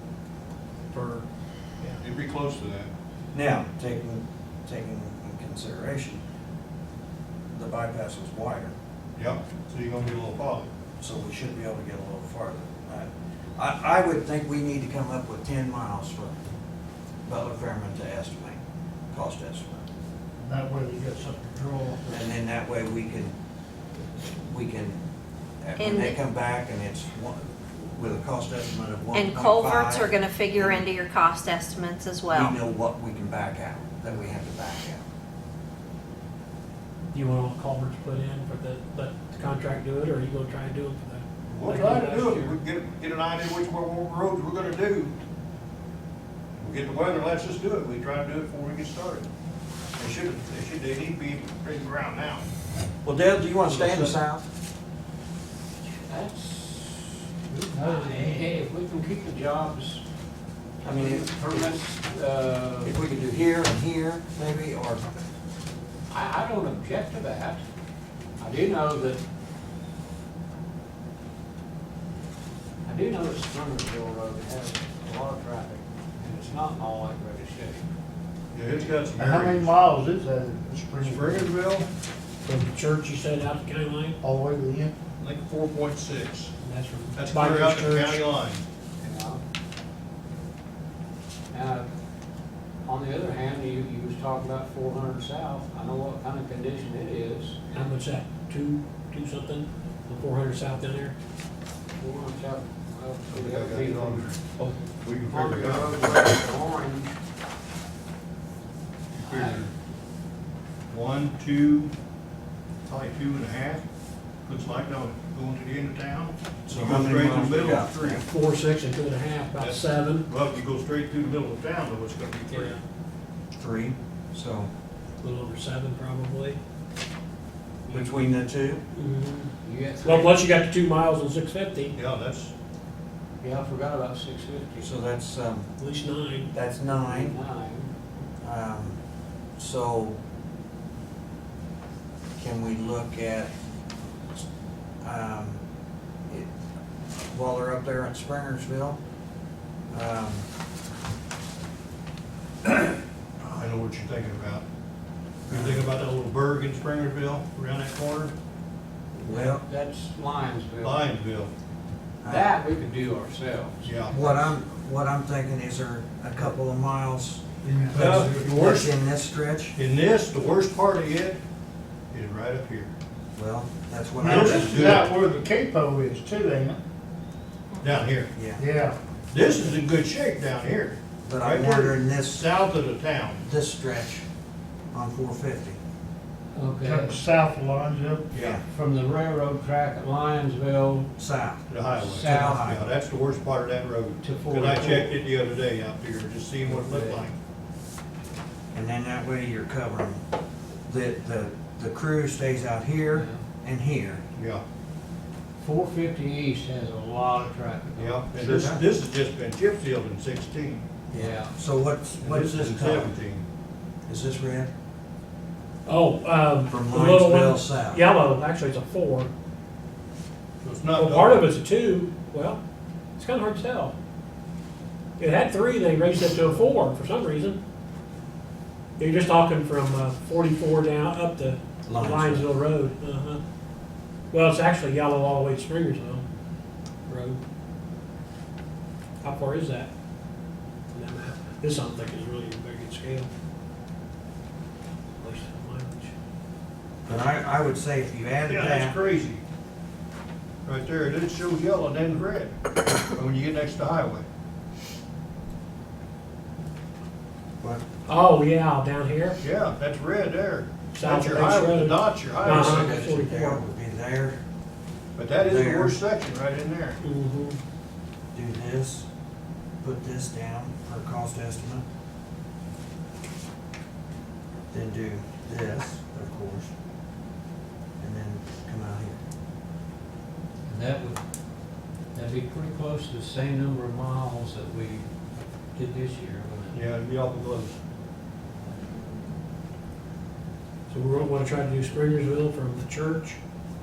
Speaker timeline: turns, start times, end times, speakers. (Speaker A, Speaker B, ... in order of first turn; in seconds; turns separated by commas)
Speaker A: 0.9-1.2, Speaker B: 2.0-2.9, Speaker C: 3.3-6.2, Speaker C: 7.5-8.7, Speaker B: 9.2-10.7, Speaker C: 11.0-16.4, Speaker C: 17.3-18.6, Speaker C: 19.1-19.9, Speaker D: 20.4-22.3, Speaker C: 22.1-23.4, Speaker C: 24.3-25.0, Speaker C: 25.6-30.9, Speaker E: 25.8-26.2, Speaker E: 29.1-32.6, Speaker C: 32.3-35.0, Speaker A: 37.1-42.5, Speaker B: 41.5-45.2, Speaker F: 41.7-42.4, Speaker B: 46.6-49.3, Speaker B: 50.0-52.5, Speaker C: 53.0-54.5, Speaker B: 53.7-54.1, Speaker F: 55.9-57.2, Speaker D: 57.5-58.5, Speaker F: 57.7-60.0, Speaker C: 60.8-61.7, Speaker F: 60.8-63.0, Speaker C: 62.8-65.0, Speaker F: 66.1-67.6, Speaker F: 68.4-69.2, Speaker F: 72.8-77.8, Speaker B: 78.5-79.7, Speaker D: 79.2-81.5, Speaker B: 81.0-81.9, Speaker A: 82.5-84.2, Speaker D: 84.2-85.0, Speaker B: 85.2-86.5, Speaker A: 86.6-88.2, Speaker B: 87.2-88.6, Speaker F: 89.0-89.4, Speaker F: 91.5-91.9, Speaker F: 92.8-97.8, Speaker A: 97.7-101.2, Speaker F: 102.0-107.1, Speaker B: 103.3-104.3, Speaker B: 105.0-105.9, Speaker F: 109.2-109.7, Speaker B: 109.3-109.7, Speaker B: 110.9-111.9, Speaker B: 112.9-113.8, Speaker B: 114.5-118.2, Speaker C: 116.7-118.2, Speaker A: 118.3-120.3, Speaker B: 119.6-122.8, Speaker A: 122.5-122.8, Speaker C: 123.6-124.7, Speaker A: 125.2-126.6, Speaker C: 127.9-128.8, Speaker F: 127.9-128.2, Speaker A: 128.9-131.9, Speaker F: 129.6-130.4, Speaker B: 132.0-132.5, Speaker F: 133.4-135.0, Speaker C: 134.8-135.7, Speaker A: 135.8-136.5, Speaker C: 136.5-137.4, Speaker F: 136.9-137.9, Speaker C: 138.4-139.0, Speaker C: 139.6-140.2, Speaker C: 142.4-143.5, Speaker C: 145.0-145.6, Speaker C: 147.1-149.0, Speaker C: 149.9-150.5, Speaker B: 152.7-154.7, Speaker B: 155.5-158.3, Speaker C: 155.5-155.9, Speaker C: 159.2-159.6, Speaker F: 159.3-161.1, Speaker B: 160.8-161.5, Speaker C: 162.2-162.5, Speaker F: 162.2-164.6, Speaker B: 163.9-164.1, Speaker C: 164.1-169.8, Speaker D: 167.6-168.5, Speaker B: 168.0-168.9, Speaker B: 169.8-171.4, Speaker B: 172.1-172.9, Speaker C: 173.4-175.1, Speaker D: 174.2-176.8, Speaker B: 174.3-175.1, Speaker B: 177.8-178.3, Speaker C: 178.3-178.6, Speaker D: 178.6-179.0, Speaker B: 179.3-183.4, Speaker C: 181.2-182.5, Speaker C: 183.5-184.2, Speaker C: 184.9-185.8, Speaker F: 186.6-187.2, Speaker D: 186.8-188.3, Speaker B: 188.3-188.6, Speaker C: 188.3-188.6, Speaker F: 188.7-191.1, Speaker C: 191.2-192.8, Speaker B: 191.7-197.3, Speaker F: 192.0-192.7, Speaker F: 194.2-195.2, Speaker F: 196.6-197.3, Speaker C: 198.7-200.2, Speaker C: 200.9-204.2, Speaker F: 203.1-203.4, Speaker B: 204.4-204.6, Speaker F: 205.6-208.3, Speaker B: 208.0-210.9, Speaker C: 208.3-208.8, Speaker C: 211.1-213.1, Speaker F: 211.1-211.6, Speaker B: 212.2-213.4, Speaker C: 214.1-214.7, Speaker A: 215.9-219.3, Speaker C: 216.7-218.0, Speaker B: 220.6-221.4, Speaker A: 221.0-222.6, Speaker A: 223.2-223.9, Speaker A: 225.2-227.6, Speaker A: 229.0-233.4, Speaker C: 231.9-232.5, Speaker A: 234.3-236.2, Speaker A: 237.1-237.4, Speaker A: 239.2-239.9, Speaker A: 240.9-243.3, Speaker A: 245.2-246.1, Speaker C: 247.1-249.0, Speaker B: 248.5-249.4, Speaker B: 250.7-252.5, Speaker B: 253.1-254.2, Speaker A: 258.1-259.4, Speaker B: 259.4-262.9, Speaker A: 260.9-263.6, Speaker C: 262.4-264.4, Speaker B: 265.2-267.0, Speaker C: 265.4-266.0, Speaker A: 267.0-267.6, Speaker C: 268.3-269.1, Speaker C: 269.8-271.8, Speaker C: 274.7-276.7, Speaker C: 278.0-279.2, Speaker F: 280.7-281.2, Speaker F: 282.1-285.1, Speaker F: 285.8-286.8, Speaker B: 286.7-287.8, Speaker A: 290.9-293.4